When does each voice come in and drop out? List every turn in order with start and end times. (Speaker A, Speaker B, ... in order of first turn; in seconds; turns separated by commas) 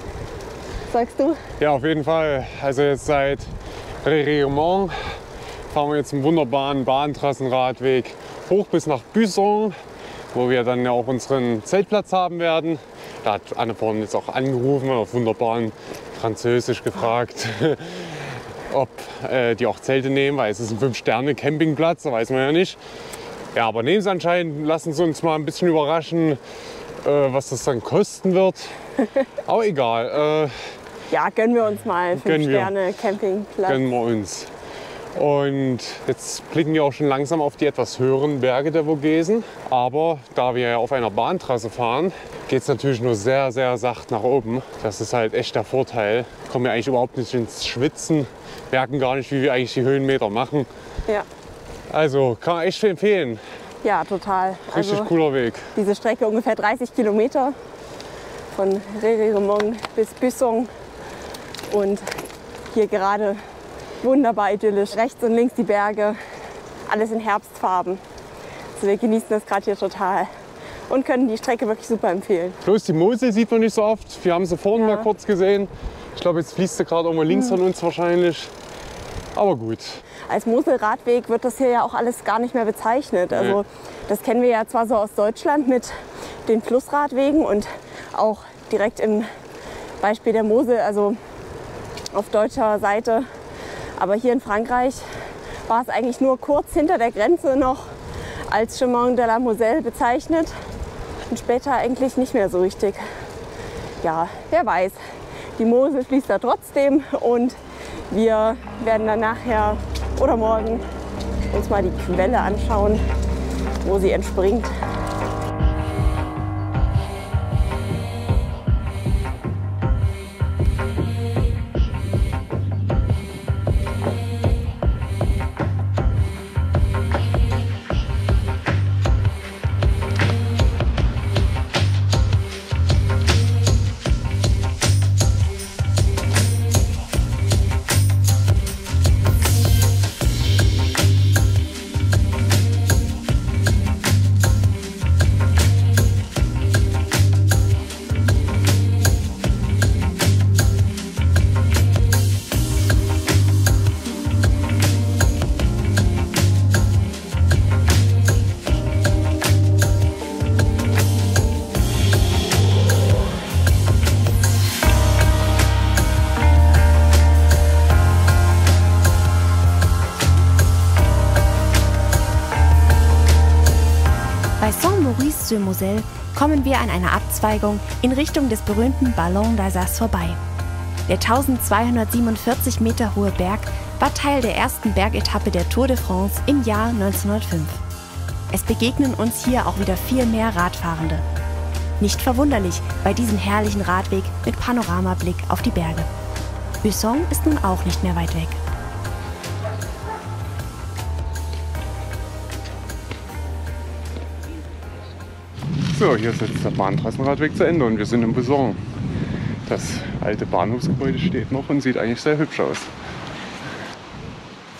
Speaker A: 0.9-1.4, Speaker B: 1.6-5.2, Speaker B: 5.7-9.8, Speaker B: 10.3-22.8, Speaker B: 23.5-26.4, Speaker B: 27.0-28.7, Speaker B: 29.4-30.7, Speaker A: 31.1-33.8, Speaker B: 32.1-32.7, Speaker B: 33.6-34.5, Speaker B: 35.1-50.7, Speaker B: 51.9-53.4, Speaker A: 53.8-55.1, Speaker B: 54.7-55.7, Speaker A: 55.7-57.6, Speaker A: 58.5-60.7, Speaker A: 61.7-62.1, Speaker A: 62.7-63.4, Speaker A: 64.0-66.2, Speaker A: 66.9-68.0, Speaker A: 68.8-70.3, Speaker A: 70.9-72.6, Speaker B: 72.6-78.5, Speaker A: 74.8-75.1, Speaker B: 79.3-80.0, Speaker A: 80.3-89.3, Speaker B: 83.3-83.6, Speaker A: 90.0-91.2, Speaker A: 92.1-93.2, Speaker A: 94.0-95.0, Speaker A: 95.7-97.9, Speaker A: 98.5-100.5, Speaker A: 101.3-103.0, Speaker A: 104.0-105.0, Speaker A: 105.6-107.6, Speaker A: 108.1-110.8, Speaker A: 111.5-113.0, Speaker A: 113.8-114.7, Speaker C: 174.6-180.4, Speaker C: 181.1-187.8, Speaker C: 188.5-191.2, Speaker C: 192.0-196.1, Speaker C: 196.8-198.6, Speaker B: 205.9-208.8, Speaker B: 209.7-212.9